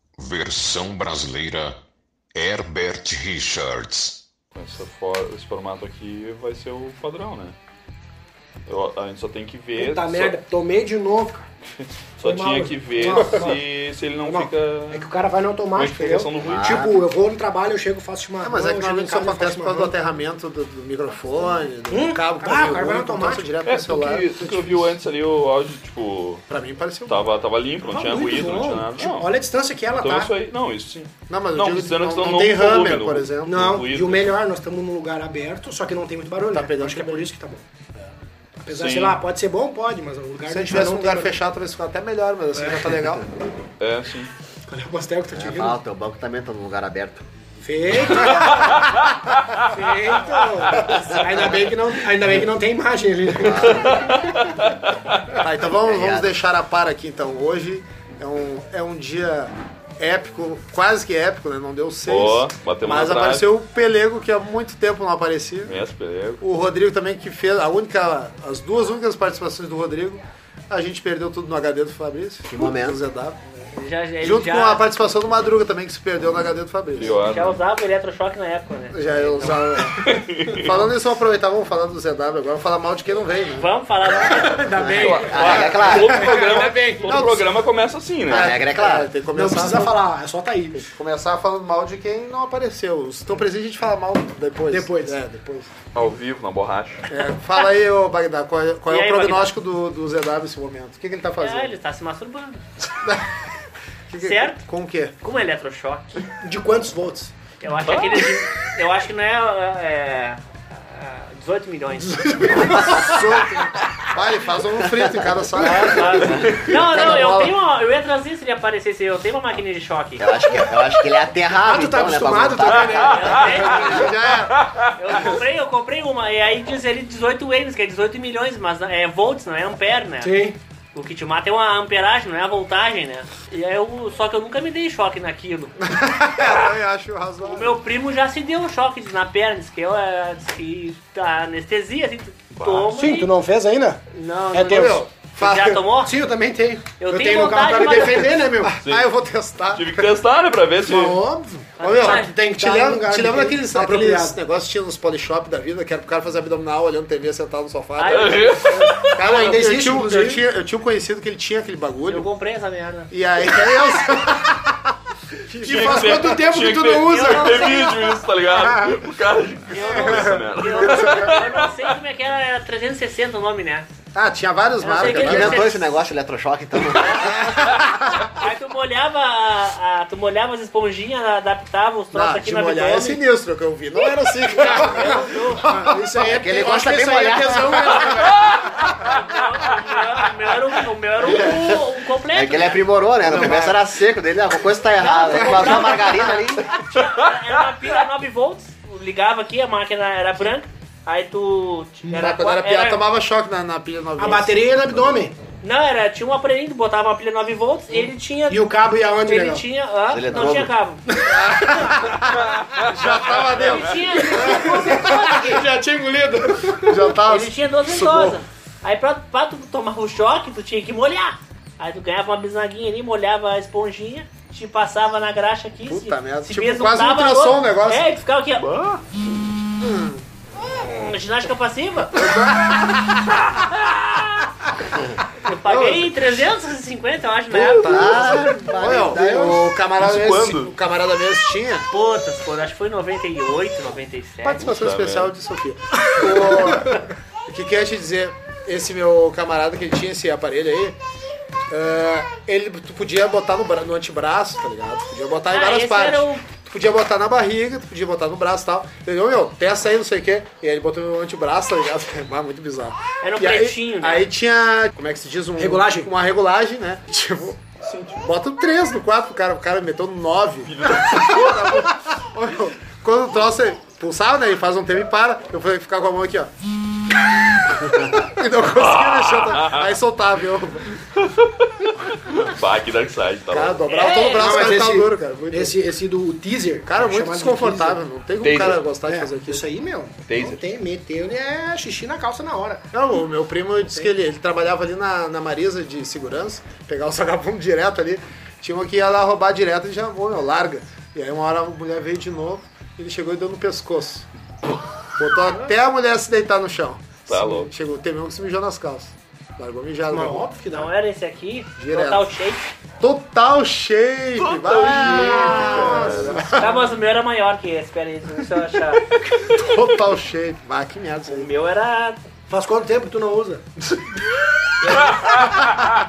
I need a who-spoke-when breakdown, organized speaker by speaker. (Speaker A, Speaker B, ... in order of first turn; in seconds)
Speaker A: 0.2-1.8, 2.3-4.2
Speaker B: 4.5-7.5, 8.7-10.3, 12.2-15.1, 15.7-16.8, 23.6-26.4, 27.1-29.3, 29.9-34.3, 38.7-39.2, 43.8-44.3, 48.2-49.1, 53.8-54.7, 62.1-63.5, 65.6-66.4, 76.9-77.6, 80.0-80.7, 85.0-88.6, 95.9-97.0, 107.8-108.3, 116.2-116.8, 142.5-142.9, 148.8-149.1, 149.7-151.2, 158.1-159.1, 165.6-171.9, 212.4-214.0, 228.6-229.0, 240.0-240.7, 244.6-245.3, 267.8-268.3, 270.7-271.8, 278.7-279.9, 281.0-283.8, 288.4-288.8, 290.2-290.6, 307.3-307.7, 314.4-316.6, 324.9-326.0
Speaker C: 9.8-11.5, 12.2-13.7, 14.2-19.9, 21.9-23.5, 27.8-30.3, 33.4-37.6, 38.6-41.3, 44.7-45.8, 47.6-48.8, 49.6-53.9, 84.2-87.3, 89.2-90.8, 94.7-95.2, 106.4-107.3, 121.6-123.9, 130.2-130.6, 142.8-144.0, 144.5-145.0, 146.0-148.8, 150.8-154.4, 159.2-160.4, 165.6-167.9, 184.7-188.5, 204.2-205.3, 207.9-209.6, 211.1-211.9, 214.2-217.1, 239.2-239.5, 265.6-266.1, 284.4-288.0, 289.1-292.8, 310.1-310.9, 314.9-316.6, 322.5-323.6
Speaker D: 16.4-17.0, 45.3-47.2, 53.4-54.5, 55.8-56.3, 72.5-73.0, 84.9-86.2, 88.3-89.2, 112.6-113.2, 115.0-116.5, 120.2-123.8, 175.0-177.5, 186.2-188.2, 191.2-196.7, 210.1-210.7, 237.8-239.7
Speaker E: 18.4-24.9, 26.5-27.3, 31.3-33.7, 36.5-37.3, 40.5-43.3, 55.4-65.8, 66.4-73.4, 74.2-77.2, 78.9-83.7, 84.8-87.5, 88.3-90.0, 90.7-95.7, 97.1-101.7, 103.0-103.3, 104.1-105.2, 112.0-117.6, 123.4-124.5, 135.8-137.8, 144.6-145.8, 147.6-150.1, 151.8-162.2, 163.1-164.9, 165.5-166.4, 168.5-169.0, 169.8-171.4, 174.1-175.7, 177.1-178.3, 182.1-186.2, 187.8-188.5, 193.2-193.9, 195.3-196.5, 202.1-204.6, 211.2-215.3, 216.7-218.4, 225.9-228.0, 229.8-230.2, 232.3-233.3, 235.6-236.3, 237.8-241.9, 244.4-251.0, 251.7-267.6, 268.2-276.5, 277.9-280.9, 283.5-285.7, 286.8-289.6, 292.9-304.3, 305.1-310.5, 311.8-312.3, 313.0-316.8, 319.4-321.5
Speaker F: 73.7-74.8, 77.2-79.8, 83.6-84.6, 98.9-99.5, 101.4-102.6, 104.2-104.6, 105.2-106.2, 107.6-112.7, 115.6-120.3, 123.0-124.1, 124.9-130.4, 130.9-135.8, 137.4-143.3, 144.1-146.2, 147.0-148.3, 151.8-152.3, 158.0-159.0, 162.1-163.1, 167.1-168.2, 169.7-173.9, 174.8-175.8, 176.9-183.2, 184.5-185.6, 188.7-192.9, 195.0-203.0, 205.6-208.6, 209.2-211.0, 213.5-215.7, 217.2-228.6, 230.7-232.3, 233.5-234.4, 235.4-238.3, 241.9-244.7, 255.5-256.4, 263.2-264.3, 283.9-284.7, 310.7-312.7, 316.6-319.1, 321.3-322.2